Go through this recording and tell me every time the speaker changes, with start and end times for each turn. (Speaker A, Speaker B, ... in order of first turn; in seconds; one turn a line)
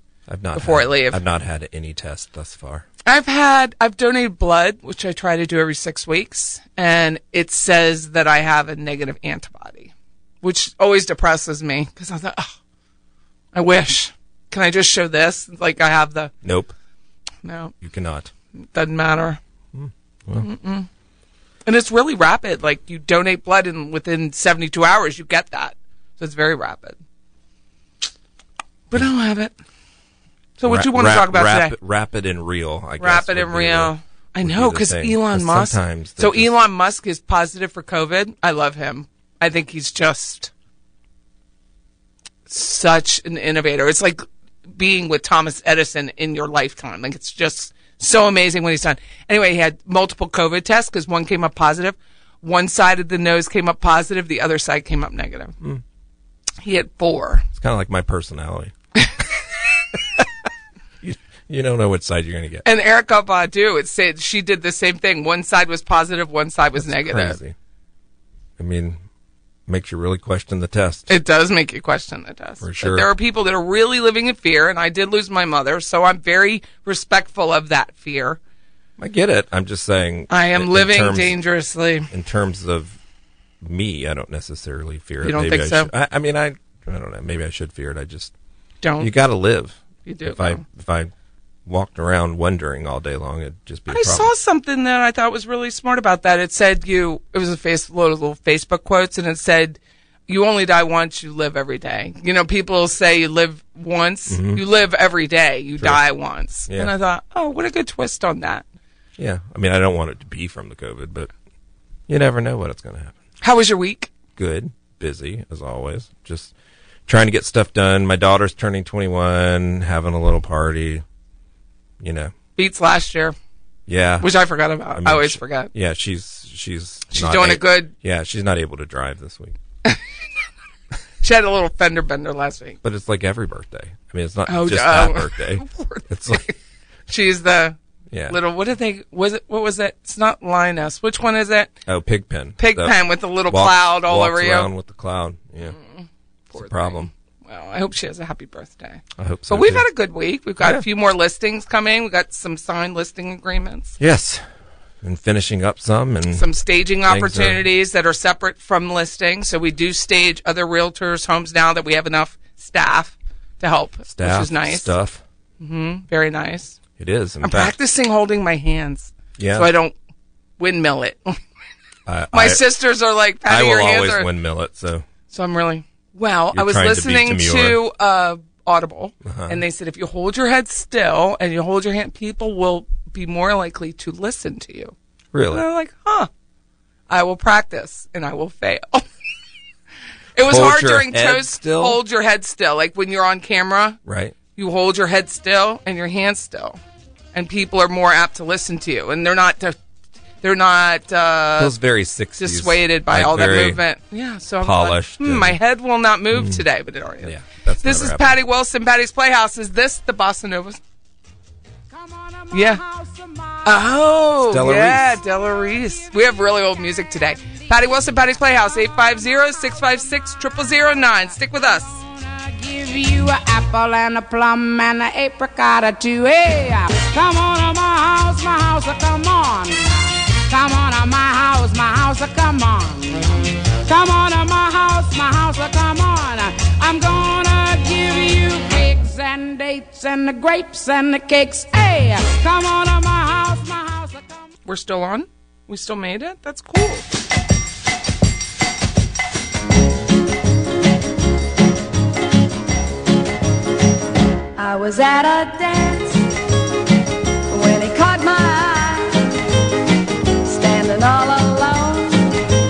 Speaker A: 0.3-2.9
Speaker B: 0.5-1.2
Speaker B: 3.0-12.5
Speaker B: 13.5-16.3
Speaker A: 16.4-16.7
Speaker B: 17.4-17.7
Speaker A: 17.8-18.3
Speaker B: 18.7-19.4
Speaker A: 19.7-20.5
Speaker B: 20.4-20.9
Speaker B: 21.6-27.0
Speaker B: 28.9-29.5
Speaker B: 30.6-31.8
Speaker A: 30.6-36.6
Speaker B: 33.0-40.5
Speaker B: 42.5-44.2
Speaker B: 44.7-55.6
Speaker B: 56.6-57.4
Speaker A: 57.5-58.7
Speaker A: 59.9-60.2
Speaker A: 61.0-62.6
Speaker B: 62.6-67.4
Speaker A: 66.8-67.5
Speaker A: 68.6-69.0
Speaker A: 69.7-71.2
Speaker B: 71.1-78.4
Speaker A: 72.6-73.1
Speaker A: 79.0-81.4
Speaker B: 80.3-82.1
Speaker A: 82.1-83.0
Speaker A: 83.6-88.3
Speaker B: 85.2-85.9
Speaker B: 88.8-89.1
Speaker A: 89.0-91.1
Speaker B: 90.0-90.6
Speaker A: 91.7-94.3
Speaker B: 93.9-108.6
Speaker A: 104.3-104.6
Speaker A: 105.8-106.0
Speaker A: 106.7-106.9
Speaker A: 109.2-111.3
Speaker A: 112.1-113.2
Speaker B: 113.4-114.1
Speaker A: 114.3-116.5
Speaker A: 117.1-121.0
Speaker A: 122.0-122.3
Speaker B: 122.6-123.3
Speaker A: 123.9-124.3
Speaker B: 124.2-125.7
Speaker A: 124.9-129.6
Speaker B: 127.1-127.9
Speaker B: 131.2-132.8
Speaker A: 132.8-136.4
Speaker B: 134.5-136.6
Speaker B: 137.1-137.8
Speaker A: 138.1-138.4
Speaker B: 138.3-141.7
Speaker A: 141.8-145.8
Speaker B: 142.6-144.7
Speaker B: 145.6-154.0
Speaker A: 146.5-147.1
Speaker A: 149.2-149.8
Speaker A: 150.6-150.8
Speaker A: 154.0-154.4
Speaker A: 155.0-156.5
Speaker B: 156.3-164.9
Speaker A: 157.0-157.6
Speaker A: 164.1-165.2
Speaker B: 165.6-166.8
Speaker A: 167.0-167.8
Speaker B: 167.4-169.9
Speaker A: 169.4-169.7
Speaker B: 170.6-171.4
Speaker A: 172.1-172.6
Speaker B: 172.3-174.3
Speaker A: 173.4-175.0
Speaker B: 175.3-184.9
Speaker A: 176.5-177.8
Speaker A: 179.2-179.6
Speaker A: 185.3-185.6
Speaker B: 185.5-186.3
Speaker B: 187.1-189.0
Speaker B: 190.3-194.0
Speaker A: 190.4-192.0
Speaker A: 194.0-194.3
Speaker B: 194.6-196.8
Speaker B: 197.3-199.8
Speaker B: 200.4-201.7
Speaker A: 201.6-203.8
Speaker B: 202.4-210.8
Speaker A: 204.6-205.6
Speaker A: 206.3-206.6
Speaker A: 207.2-208.4
Speaker C: 211.9-213.7
Speaker B: 212.5-212.8
Speaker B: 213.6-221.9
Speaker A: 214.5-215.2
Speaker C: 222.0-244.5
Speaker B: 244.7-247.0
Speaker D: 254.6-256.2
Speaker D: 257.5-259.4
Speaker D: 260.4-262.3